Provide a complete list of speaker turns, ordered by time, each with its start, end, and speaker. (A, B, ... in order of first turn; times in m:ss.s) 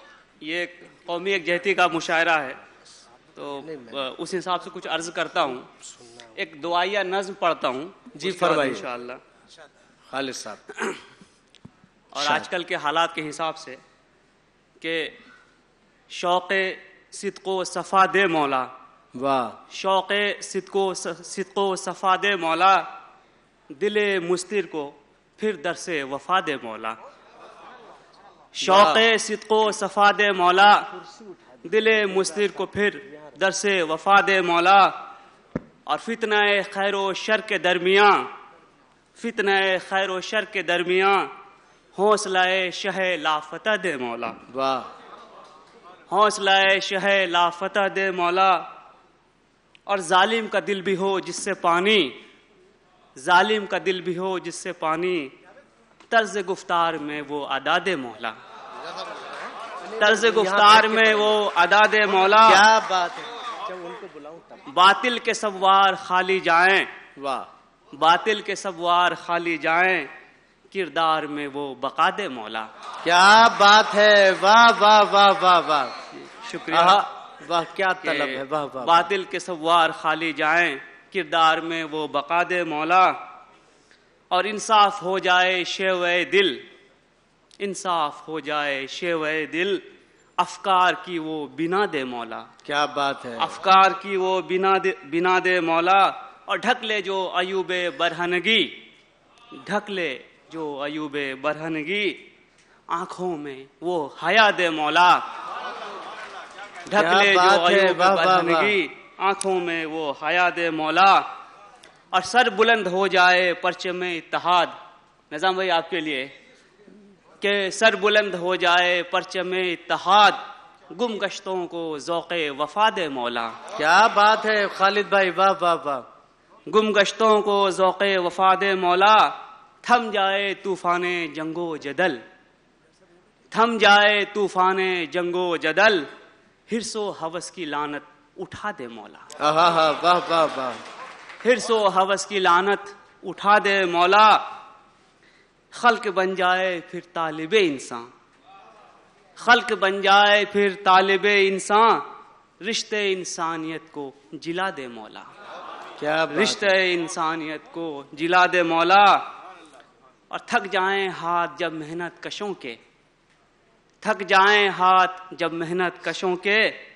0:00.4-0:02.6 A
0:03.4-0:05.7 A
0:03.6-0:04.0 B
0:06.3-0:09.2 A
0:08.2-0:08.9 B
0:10.1-0:10.6 B
0:12.1-0:13.8 A
0:12.2-0:12.5 B
0:14.8-0:15.2 A
0:16.1-0:18.7 A
0:19.2-0:19.6 B
0:19.7-0:22.9 A
0:23.7-0:27.0 A
0:28.6-0:30.9 A
0:28.6-0:29.0 B
0:31.0-0:31.4 B
0:31.6-0:34.9 A
0:35.9-0:38.2 A
0:39.2-0:41.3 A
0:42.0-0:44.4 A
0:44.5-0:44.9 B
0:46.1-0:48.6 A
0:49.9-0:52.2 A
0:53.2-0:55.3 A
0:56.1-0:58.4 A
0:59.9-1:01.4 B
1:00.0-1:02.6 A
1:02.4-1:04.6 B
1:04.6-1:06.9 A
1:07.2-1:07.5 B
1:07.9-1:10.1 A
1:10.7-1:12.7 A
1:13.0-1:15.9 B
1:16.2-1:17.0 A
1:16.7-1:19.1 B
1:18.0-1:23.2 A
1:24.3-1:26.6 A
1:27.6-1:29.8 A
1:30.4-1:32.5 A
1:32.6-1:33.6 B
1:33.4-1:38.8 A
1:39.5-1:42.2 A
1:42.9-1:45.2 A
1:46.9-1:51.2 A
1:46.9-1:48.8 B
1:52.1-1:54.7 A
1:55.3-1:56.3 A
1:57.4-2:00.4 A
2:00.9-2:03.5 A
2:03.8-2:06.0 B
2:06.7-2:12.2 A
2:13.5-2:16.1 A
2:16.7-2:19.2 A
2:19.4-2:20.8 B
2:21.4-2:24.4 A
2:25.7-2:28.1 A
2:29.4-2:32.0 A
2:32.6-2:35.3 A
2:36.0-2:36.8 B
2:36.3-2:39.2 A
2:40.3-2:42.8 A
2:44.0-2:46.8 A